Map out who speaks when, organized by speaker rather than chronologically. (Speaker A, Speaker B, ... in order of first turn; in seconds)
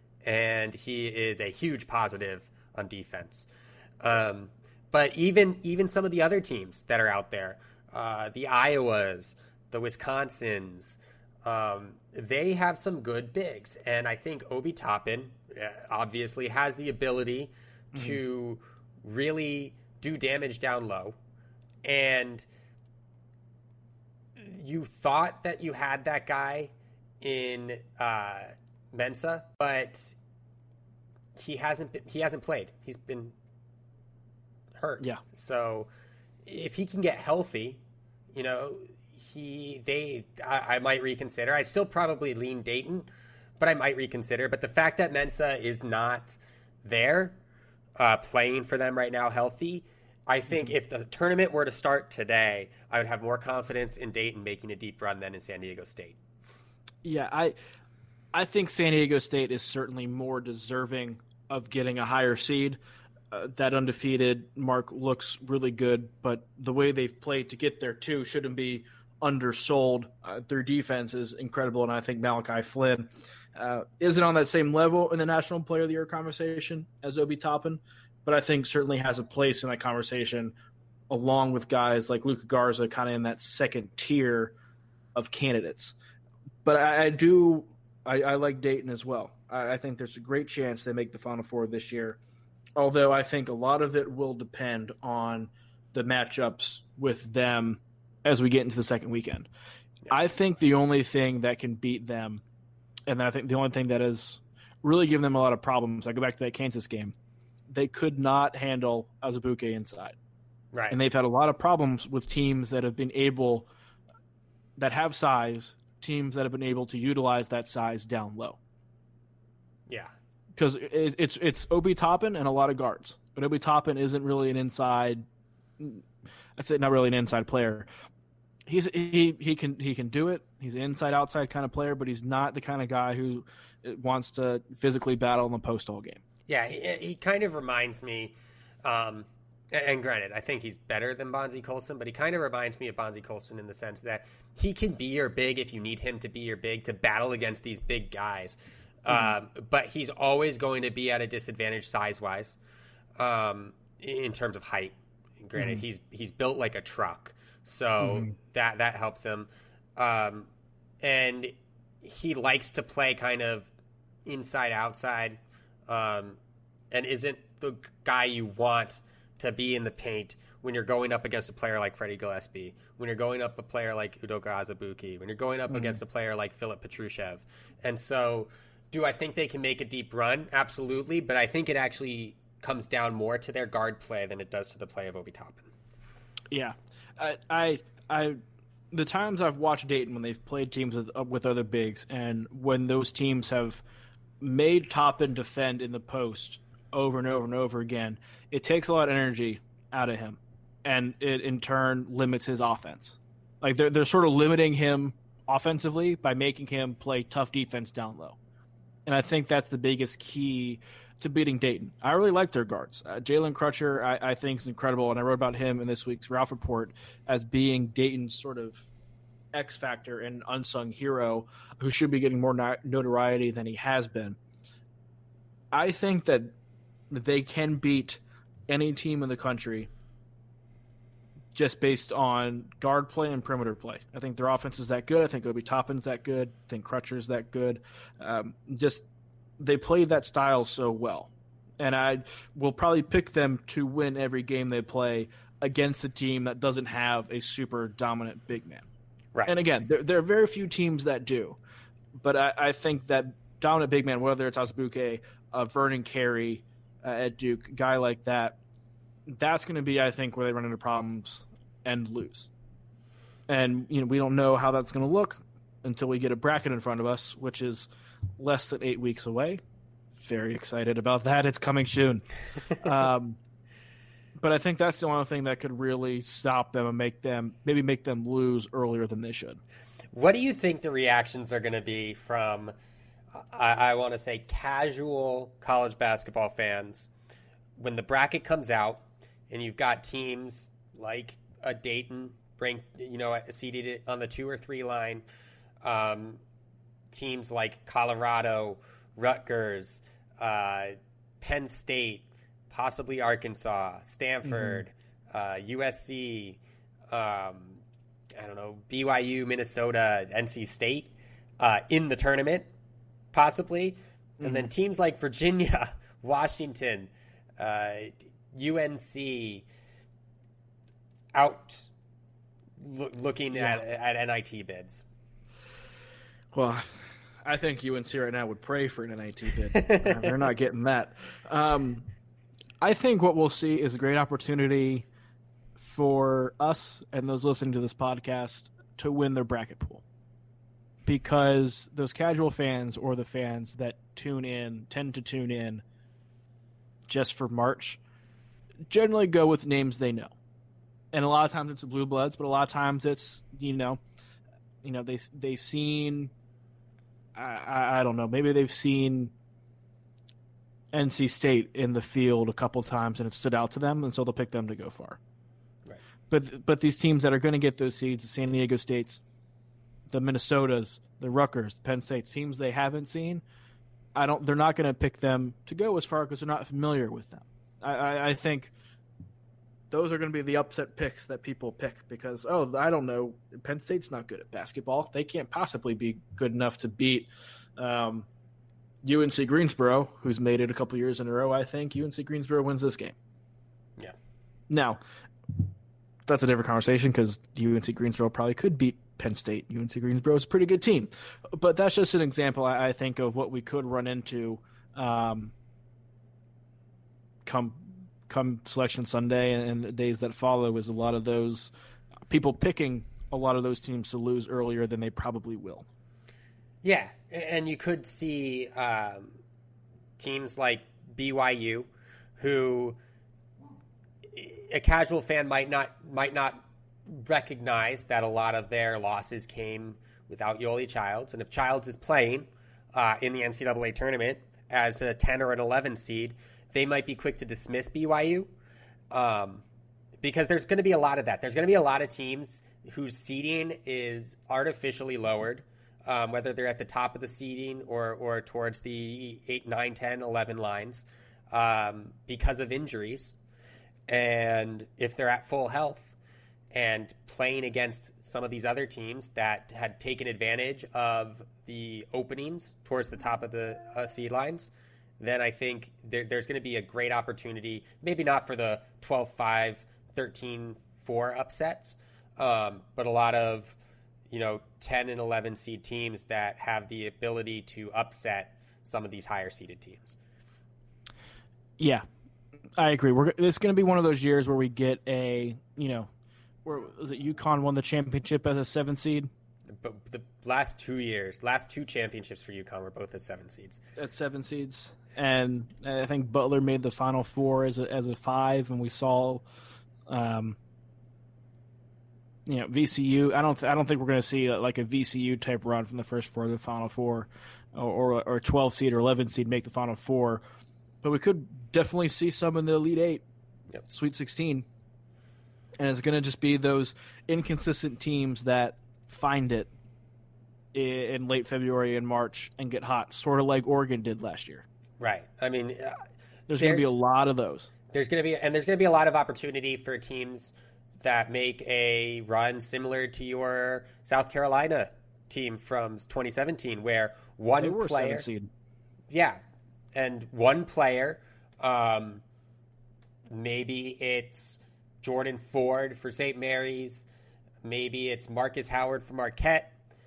Speaker A: 0.2-3.5, 4.0-21.2, 21.8-22.5, 24.4-30.2, 31.4-33.4, 34.8-35.9, 36.5-37.8, 38.3-43.1, 43.6-47.4, 48.0-56.2, 110.7-111.0, 136.5-152.6, 153.2-160.5, 161.0-163.7, 164.3-166.4, 166.9-185.7, 280.1-282.7, 283.3-287.1, 287.8-295.2, 295.8-296.4, 297.1-307.8, 308.4-312.7, 313.3-319.6, 321.3-321.9, 322.8-325.0, 329.8-330.3, 416.8-419.4, 420.2-423.0, 424.3-438.5, 439.1-439.6, 440.2-453.4, 454.1-456.1, 456.7-473.8, 474.3-480.2, 489.7-493.8, 525.0-526.0, 526.5-527.0, 527.9-538.3, 539.1-539.4, 540.0-542.2, 543.3-547.1, 547.6-549.7
Speaker B: 17.9-18.2, 57.0-57.5, 58.3-62.8, 63.3-80.5, 81.1-84.5, 85.1-86.0, 86.6-92.2, 92.8-99.5, 100.1-102.4, 103.1-107.2, 107.7-110.2, 110.9-113.7, 114.8-118.6, 120.5-125.2, 125.8-126.0, 126.6-127.9, 128.7-136.2, 155.6-155.8, 158.0-158.3, 175.7-176.0, 186.5-188.4, 188.9-193.8, 194.4-208.4, 209.1-218.9, 219.5-224.4, 225.7-226.5, 227.1-229.9, 231.5-239.0, 239.6-248.9, 249.5-251.6, 252.2-258.6, 259.3-262.5, 263.5-269.6, 270.2-273.4, 274.4-279.6, 304.4-304.8, 314.4-314.7, 323.5-323.8, 326.5-326.8, 327.4-332.1, 332.8-335.1, 335.8-340.0, 341.1-345.8, 347.1-348.0, 348.9-350.3, 351.1-354.0, 354.8-356.3, 357.4-359.3, 360.9-365.2, 366.3-369.2, 370.1-373.4, 374.1-378.7, 379.9-388.3, 389.0-393.1, 394.7-395.0, 396.3-405.5, 407.4-411.7, 412.3-415.9, 481.8-482.0, 482.8-486.1, 486.6-489.3, 494.0-499.4, 500.1-500.6, 502.5-510.4, 511.0-513.2, 513.9-514.7, 515.8-519.7, 520.7-524.7, 526.5-527.7, 537.6-538.5